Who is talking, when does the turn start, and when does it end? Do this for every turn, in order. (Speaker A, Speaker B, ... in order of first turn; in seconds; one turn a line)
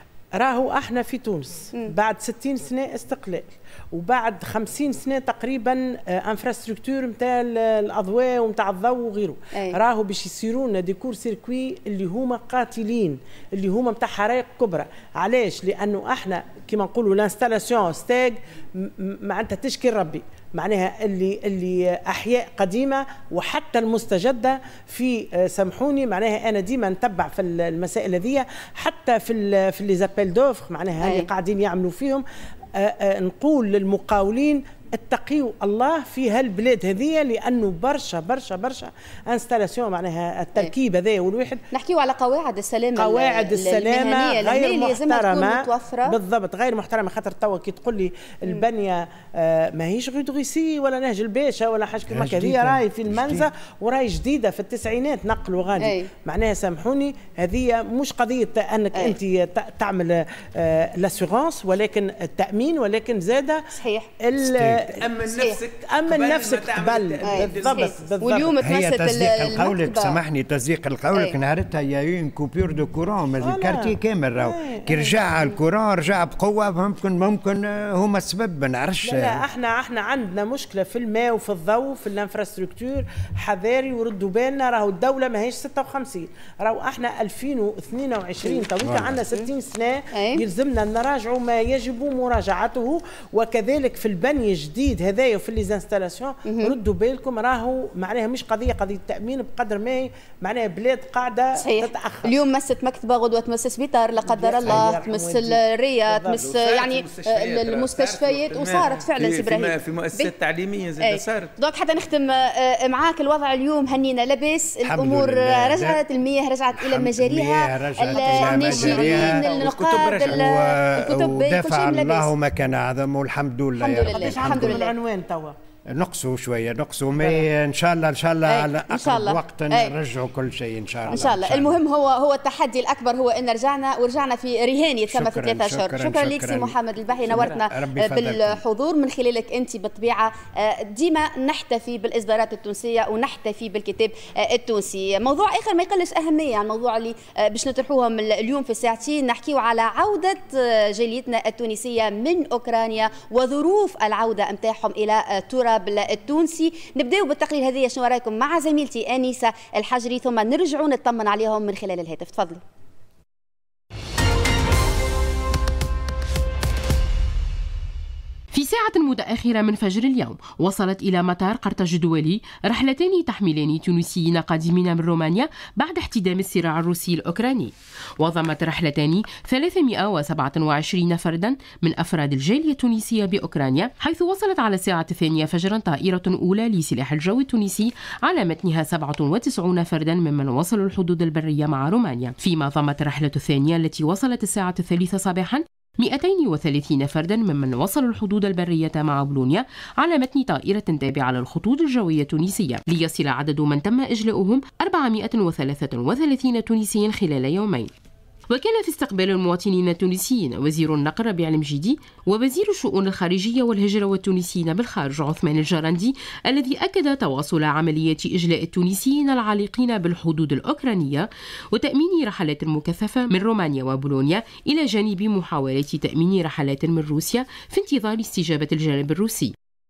Speaker A: 0.3-32.2
Speaker B: 9.5-9.8
Speaker B: 31.0-31.3
Speaker A: 32.8-41.6
Speaker B: 41.7-46.1
Speaker A: 43.0-63.7
Speaker C: 52.1-53.5
Speaker B: 55.8-56.1
Speaker B: 63.7-64.1
Speaker A: 64.2-65.0
Speaker C: 64.4-64.9
Speaker D: 65.0-67.9
Speaker B: 65.3-65.6
Speaker A: 65.9-68.6
Speaker B: 67.2-70.2
Speaker C: 68.6-79.4
Speaker A: 73.4-75.2
Speaker A: 79.0-102.3
Speaker C: 88.8-89.2
Speaker B: 90.1-90.4
Speaker B: 96.5-96.7
Speaker B: 101.5-110.3
Speaker A: 104.2-106.4
Speaker D: 106.4-111.5
Speaker B: 111.0-122.3
Speaker C: 114.8-116.0
Speaker C: 116.7-119.6
Speaker A: 118.1-119.7
Speaker D: 118.8-120.5
Speaker C: 120.3-124.8
Speaker B: 123.8-124.9
Speaker A: 124.0-125.5
Speaker C: 125.9-131.8
Speaker B: 128.5-129.9
Speaker B: 131.1-162.6
Speaker C: 135.1-138.6
Speaker E: 168.5-207.9
Speaker E: 208.5-229.5